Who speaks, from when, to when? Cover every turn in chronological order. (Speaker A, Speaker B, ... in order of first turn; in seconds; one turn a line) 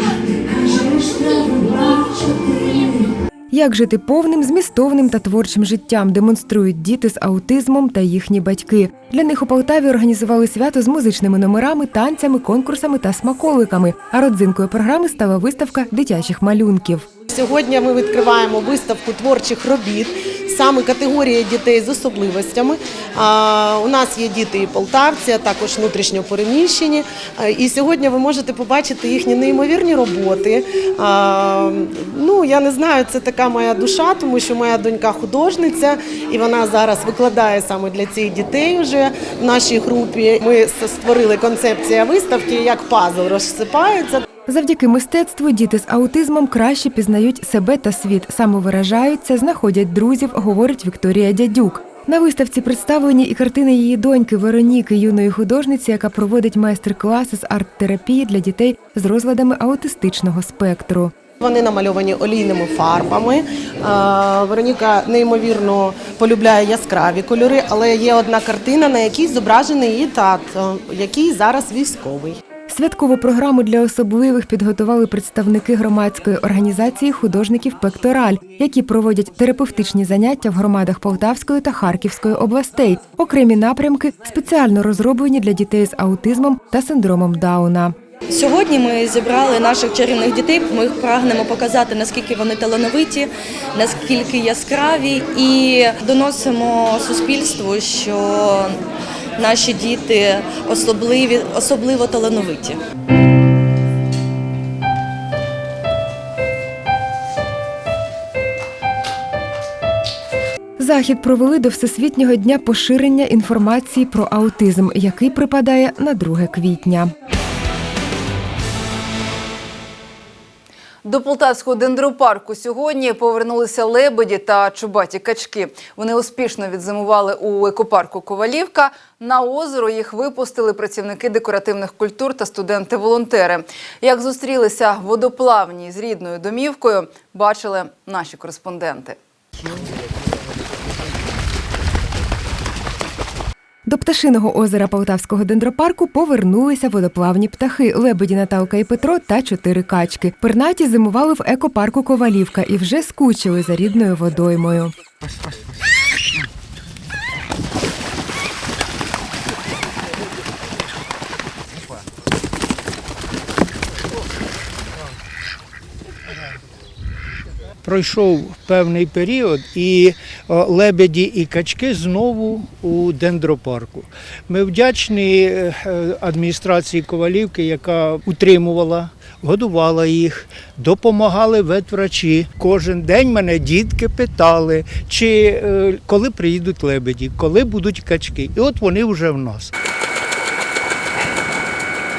Speaker A: 3.5-17.1
Speaker B: 17.3-44.2
Speaker A: 44.5-61.1
Speaker B: 61.4-72.4
Speaker A: 72.7-87.9
Speaker C: 88.3-98.7
Speaker C: 99.4-102.8
Speaker A: 110.8-117.1
Speaker D: 121.0-139.2
Speaker A: 143.9-154.9
Speaker E: 167.8-189.7